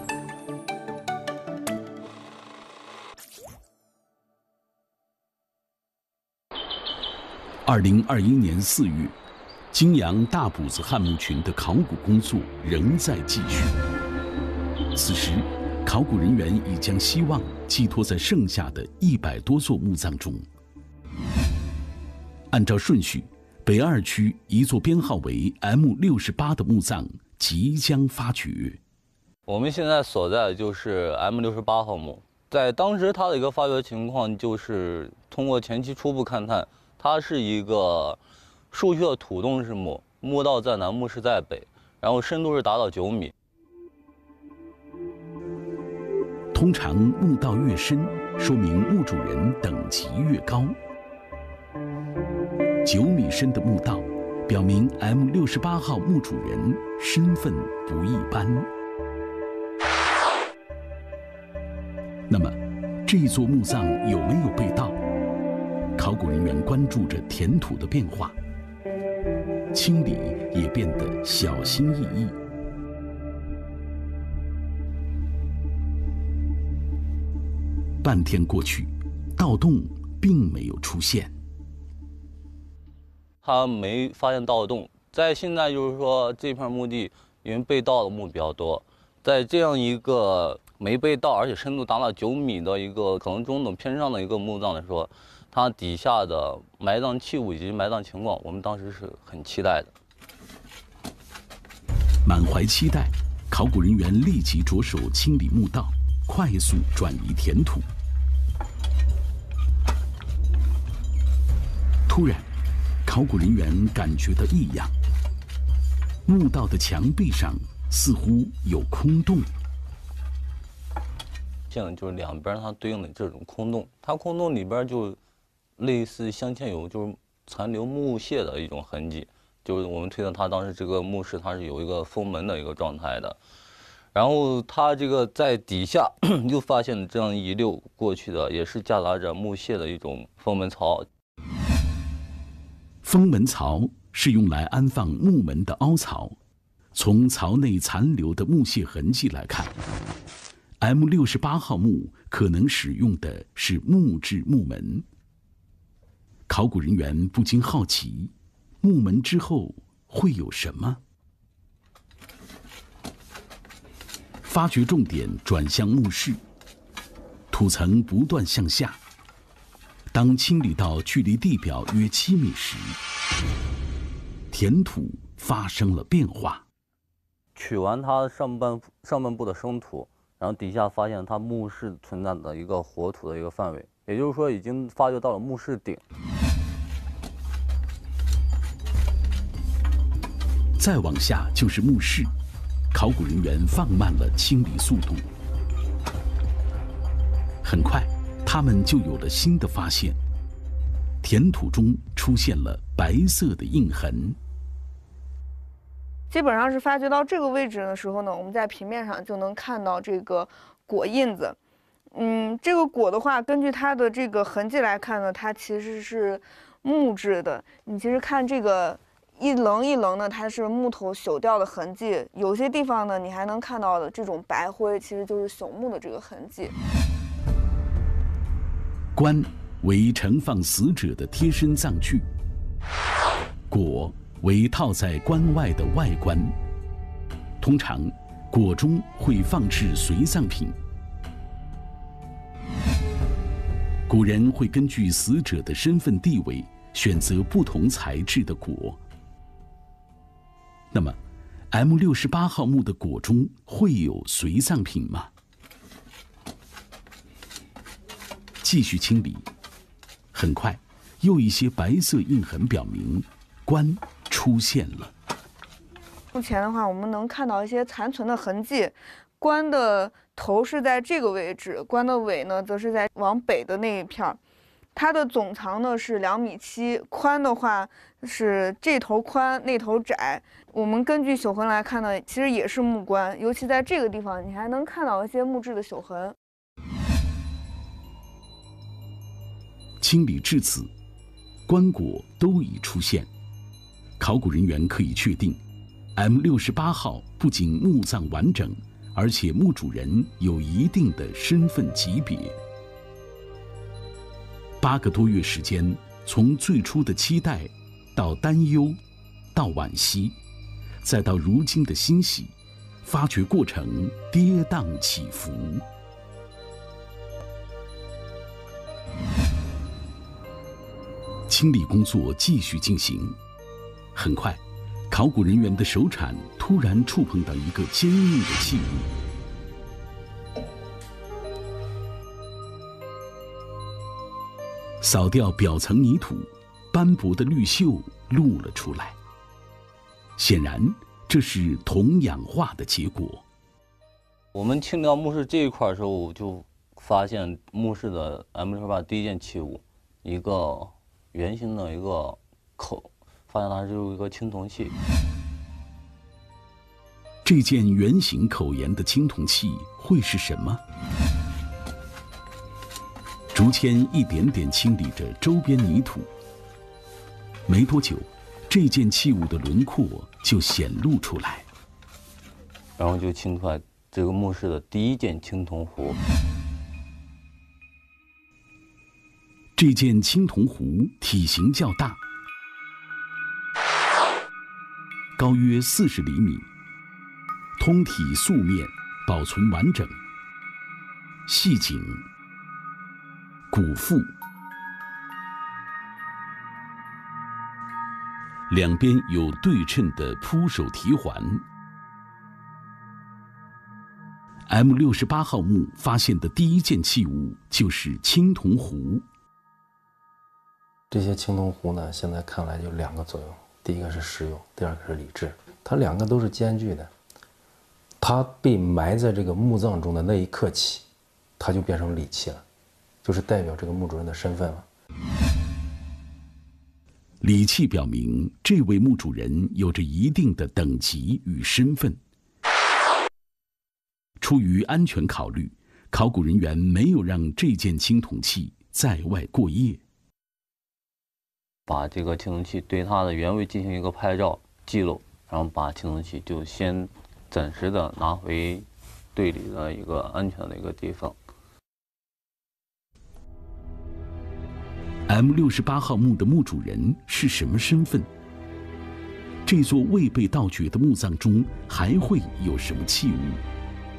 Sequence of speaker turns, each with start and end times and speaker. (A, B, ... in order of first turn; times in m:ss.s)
0:07.6-0:09.1 A
0:09.7-0:13.8 A
0:14.9-0:20.4 A
0:22.5-0:28.8 A
0:29.4-0:38.2 B
0:38.7-0:43.3 B
0:46.5-0:50.8 A
0:52.8-0:58.7 A
1:02.3-1:05.0 A
1:06.0-1:08.4 A
1:09.7-1:12.4 A
1:18.0-1:21.3 A
1:23.4-1:39.9 B
1:42.2-1:47.8 A
1:52.1-1:52.5 A
1:53.0-1:54.9 A
1:56.3-1:59.5 A
2:01.7-2:05.2 B
2:05.8-2:13.4 B
2:14.1-2:21.1 B
2:23.0-2:26.4 A
2:26.9-2:29.8 A
2:30.8-2:35.0 A
2:36.5-2:41.0 A
2:44.4-2:46.4 A
2:47.5-2:49.0 A
2:50.1-2:53.0 A
2:54.5-2:56.6 A
2:57.6-3:06.0 B
3:10.8-3:12.3 A
3:12.9-3:15.3 A
3:17.6-3:20.2 A
3:21.2-3:24.4 A
3:26.3-3:31.6 C
3:32.1-3:46.7 C
3:49.1-3:52.3 A
3:53.7-3:56.5 A
3:57.6-4:00.8 A
4:04.1-4:09.0 A
4:10.9-4:11.2 A
4:11.7-4:15.3 A
4:18.6-4:19.5 A
4:20.3-4:25.1 A
4:26.3-4:34.4 C
4:34.9-4:46.4 C
4:50.0-4:50.9 A
4:51.7-4:53.3 A
4:54.2-4:55.6 A
4:56.1-5:02.6 A
5:04.8-5:09.0 A
5:09.5-5:10.4 A
5:11.0-5:12.5 A
5:13.0-5:15.8 A
5:21.5-5:23.4 A
5:24.1-5:29.1 A
5:35.0-5:39.2 A
5:40.4-5:43.4 A
5:44.5-5:55.0 B
5:57.4-6:00.8 A
6:03.5-6:06.3 A
6:07.7-6:11.6 A
6:13.0-6:16.2 B
6:19.8-6:22.2 A
6:25.4-6:26.7 A
6:27.8-6:30.2 A
6:31.5-6:32.2 A
6:33.7-6:34.3 A
6:38.7-6:41.6 A
6:44.7-6:49.2 A
6:51.1-6:57.1 D
6:58.2-7:01.0 D
7:01.6-7:02.6 D
7:03.2-7:04.9 D
7:07.4-7:12.2 A
7:14.4-7:20.0 A
7:21.9-7:31.4 B
7:35.3-7:38.3 A
7:39.6-7:43.6 A